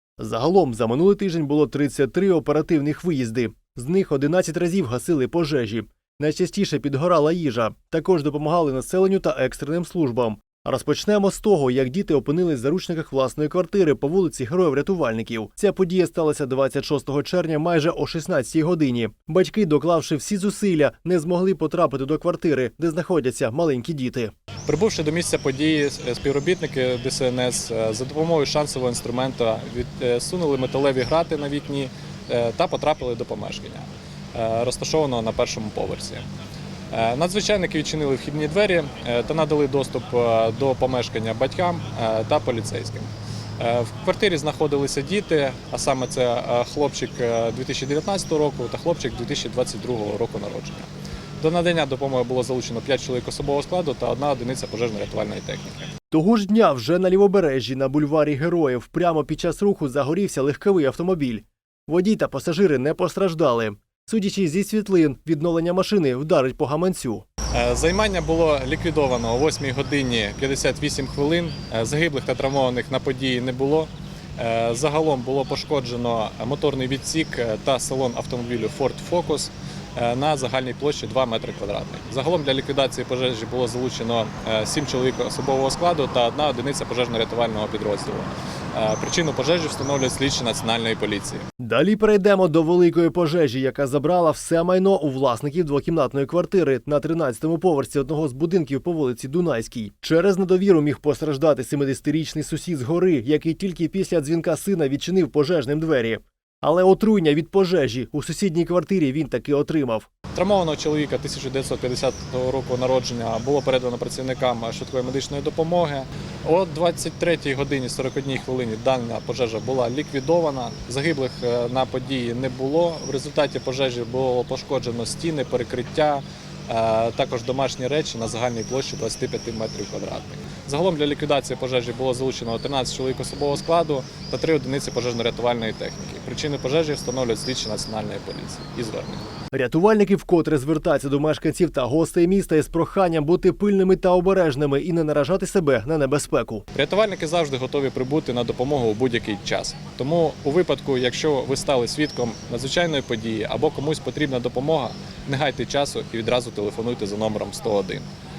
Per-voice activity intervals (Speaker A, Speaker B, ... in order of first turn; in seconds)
Speaker A: 0.2-24.3, 56.1-67.2, 91.6-110.1, 139.5-146.6
Speaker B: 24.7-36.2, 36.9-50.9, 51.4-55.8, 67.5-91.5, 110.3-139.2, 146.7-158.1